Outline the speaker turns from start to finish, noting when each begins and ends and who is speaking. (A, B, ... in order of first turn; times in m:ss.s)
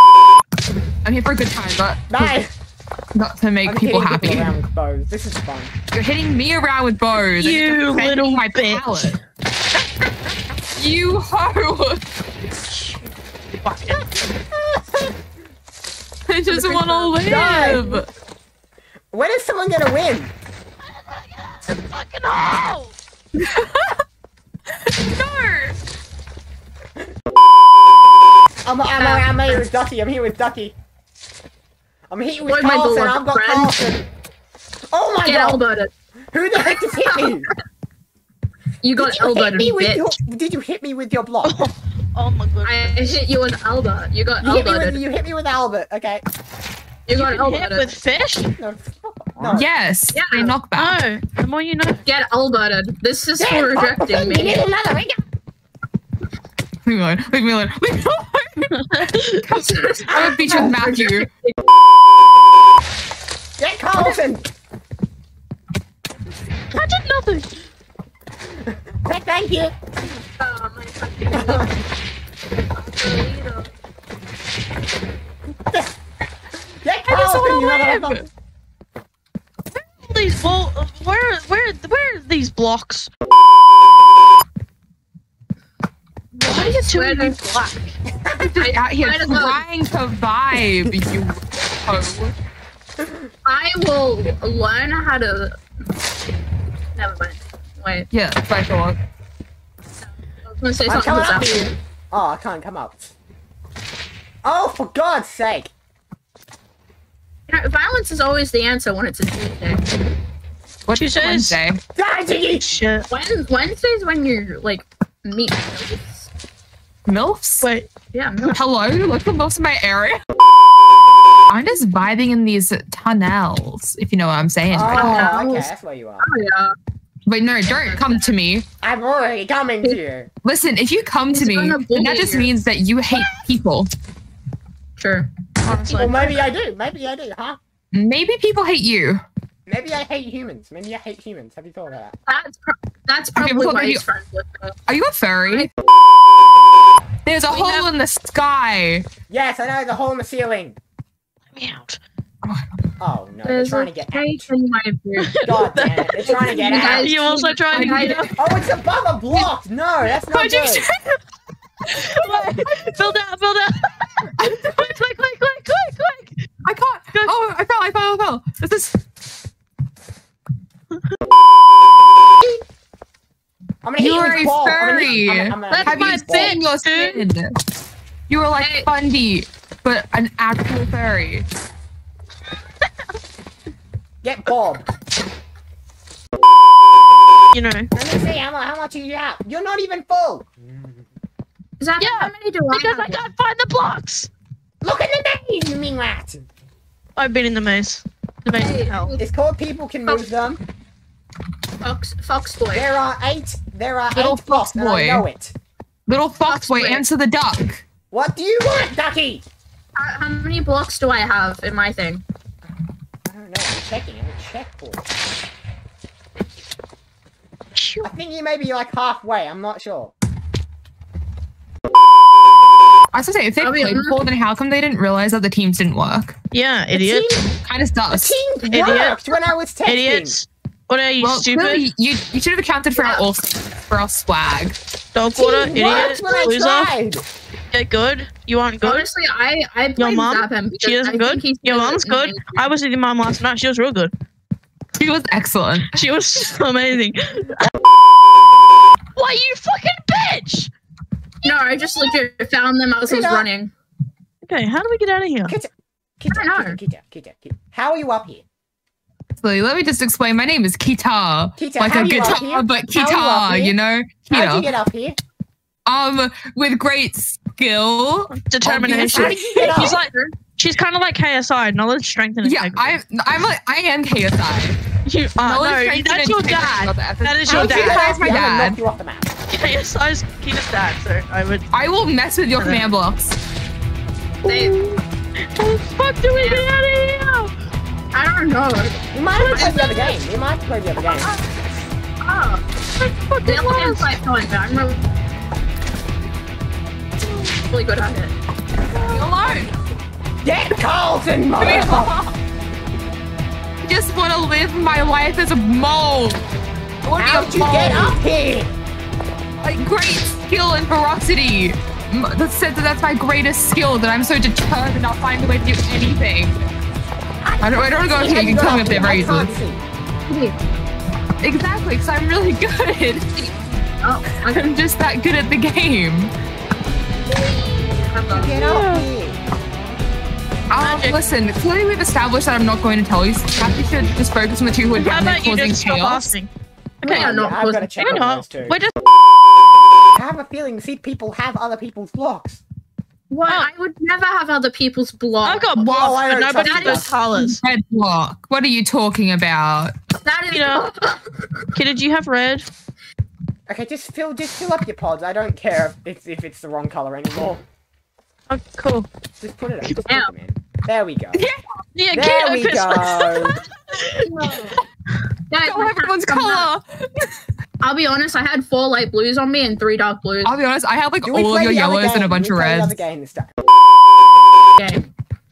0:01.0-0:02.4 A
0:02.1-0:02.5 B
0:03.1-0:04.5 A
0:03.6-0:05.7 B
0:05.9-0:09.2 A
0:07.4-0:09.2 C
0:10.7-0:12.0 A
0:12.7-0:13.1 C
0:13.6-0:14.1 C
0:16.3-0:18.0 A
0:16.9-0:18.0 B
0:17.3-0:17.8 C
0:19.1-0:20.3 B
0:21.1-0:22.9 C
0:23.4-0:24.0 A
0:24.7-0:25.8 A
0:28.6-0:30.8 B
0:29.0-0:29.6 D
0:32.1-0:34.1 B
0:32.5-0:33.7 D
0:34.9-0:35.6 B
0:35.2-0:35.9 D
0:36.3-0:37.5 B
0:36.6-0:37.3 D
0:38.8-0:40.1 D
0:39.0-0:41.7 B
0:41.4-0:43.2 C
0:42.6-0:45.0 D
0:44.4-0:46.2 B
0:47.1-0:47.9 D
0:47.1-0:48.5 C
0:48.6-0:49.7 B
0:49.5-0:51.0 A
0:50.1-0:50.6 D
0:50.8-0:52.0 C
0:52.0-0:54.6 D
0:53.4-0:55.2 B
0:56.8-1:01.3 A
0:58.8-0:59.4 C
0:59.5-1:01.5 D
1:00.1-1:01.0 B
1:03.6-1:04.4 B
1:06.7-1:07.5 C
1:08.6-1:09.7 B
1:10.3-1:11.8 D
1:11.3-1:11.7 B
1:12.6-1:13.7 D
1:16.8-1:18.3 B
1:17.1-1:18.2 A
1:19.8-1:23.1 C
1:26.3-1:28.0 C
1:26.5-1:27.4 D
1:28.2-1:28.5 B
1:28.3-1:32.3 A
1:28.6-1:29.6 D
1:33.0-1:33.2 B
1:33.4-1:35.6 D
1:36.9-1:38.1 D
1:38.1-1:39.0 A
1:40.0-1:41.5 D
1:40.9-1:43.1 B
1:44.4-1:45.7 B
1:47.5-1:49.8 D
1:50.8-1:51.8 A
1:51.0-1:51.6 C
1:52.0-1:52.7 B
1:52.5-1:53.1 C
1:53.1-1:56.3 D
1:57.0-1:57.7 A
1:57.6-1:57.9 C
1:58.1-1:58.6 D
1:58.4-2:00.2 A
2:01.5-2:05.3 A
2:04.7-2:06.3 B
2:04.8-2:05.7 D
2:06.2-2:06.7 D
2:07.2-2:08.6 A
2:07.6-2:08.3 D
2:08.8-2:10.3 B
2:10.4-2:13.9 A
2:11.3-2:12.5 D
2:15.0-2:15.3 D
2:15.6-2:16.4 C
2:15.7-2:17.6 B
2:17.9-2:19.2 A
2:19.7-2:22.2 B
2:22.3-2:24.8 D
2:23.4-2:24.0 A
2:24.9-2:25.7 A
2:27.2-2:29.0 A
2:27.5-2:27.9 D
2:29.3-2:30.8 B
2:31.5-2:32.0 C
2:32.4-2:32.8 A
2:33.0-2:34.5 B
2:33.4-2:35.4 D
2:35.2-2:38.3 C
2:35.4-2:37.1 B
2:36.2-2:38.3 D
2:37.7-2:38.3 A
2:38.4-2:40.9 B
2:40.3-2:41.2 C
2:41.9-2:46.5 C
2:42.0-2:42.7 A
2:44.4-2:44.9 A
2:46.6-2:49.0 A
2:50.9-2:51.2 C
2:53.8-2:56.6 B
2:54.0-2:57.6 A
2:55.7-2:56.2 D
2:55.9-2:57.3 C
2:58.3-3:01.4 A
2:58.6-2:58.9 D
3:04.2-3:04.9 B
3:07.5-3:07.9 C
3:07.9-3:10.9 B
3:11.8-3:13.2 D
3:12.0-3:14.3 C
3:14.8-3:16.4 B
3:17.2-3:19.1 C
3:18.5-3:19.2 D
3:19.2-3:20.6 B
3:21.8-3:22.9 D
3:22.7-3:25.5 B
3:24.1-3:25.2 A
3:26.1-3:27.8 A
3:26.4-3:27.0 D
3:28.1-3:29.4 B
3:30.0-3:32.2 D
3:33.3-3:35.0 B
3:37.8-3:38.1 C
3:38.0-3:40.1 B
3:43.1-3:46.3 A
3:43.6-3:44.2 D
3:46.5-3:47.3 C
3:46.9-3:47.5 B
3:47.6-3:48.4 A
3:48.1-3:50.4 B
3:48.7-3:51.8 C
3:51.2-3:54.8 A
3:53.0-3:53.2 D
3:55.1-3:56.9 C
3:55.3-3:57.2 B
3:57.7-3:59.1 C
3:58.8-4:02.7 D
4:00.0-4:04.1 C
4:04.9-4:06.0 A
4:05.9-4:07.7 C
4:09.2-4:10.7 C
4:11.4-4:13.7 D
4:11.5-4:12.2 C
4:13.1-4:13.5 B
4:14.4-4:15.6 C
4:15.5-4:18.4 B
4:16.3-4:16.8 D
4:19.4-4:24.7 A
4:21.6-4:23.8 B
4:24.3-4:25.2 B
4:25.8-4:29.7 A
4:28.3-4:33.0 C
4:28.9-4:30.0 B
4:29.5-4:30.3 D
4:32.4-4:34.8 A
4:35.0-4:38.2 C
4:35.4-4:38.8 A
4:37.5-4:39.3 B
4:39.5-4:41.7 C
4:41.7-4:43.4 A
4:44.4-4:44.8 D
4:44.4-4:47.5 C
4:46.4-4:46.7 D
4:48.1-4:50.2 D
4:49.1-4:51.3 B
4:51.2-4:51.4 D
4:52.2-4:52.6 D
4:53.0-4:54.0 C
4:53.4-4:55.0 D
4:57.6-4:58.3 D
4:59.0-4:59.4 C
4:59.1-4:59.7 D
4:59.1-4:59.7 A
5:00.4-5:02.1 B
5:01.6-5:02.3 A
5:03.8-5:06.4 A
5:07.0-5:08.2 A
5:07.2-5:08.7 B
5:09.6-5:16.7 A
5:17.4-5:19.8 B
5:17.6-5:19.5 A
5:20.3-5:20.5 D
5:21.4-5:23.3 A
5:23.4-5:24.7 D
5:24.5-5:26.3 A
5:27.3-5:28.6 D
5:28.3-5:29.4 B
5:28.5-5:29.0 C
5:30.7-5:36.3 A
5:30.8-5:31.2 C
5:34.9-5:36.5 C
5:37.0-5:37.4 C
5:37.0-5:38.2 D
5:37.0-5:38.8 B
5:38.0-5:39.0 C
5:40.1-5:42.6 B
5:43.3-5:47.1 D
5:45.4-5:47.6 C
5:45.9-5:47.1 B
5:47.3-5:49.9 A
5:50.2-5:51.7 D
5:50.5-5:50.8 C
5:51.7-5:52.6 C
5:53.7-5:57.6 B
5:58.5-5:59.1 C
5:59.4-6:01.5 B
6:01.3-6:01.6 A
6:01.9-6:04.8 C
6:02.1-6:03.6 B
6:04.2-6:04.8 D
6:05.5-6:06.7 D
6:05.6-6:07.3 A
6:07.8-6:10.5 D
6:10.4-6:12.9 A
6:11.3-6:13.5 B
6:14.8-6:15.1 D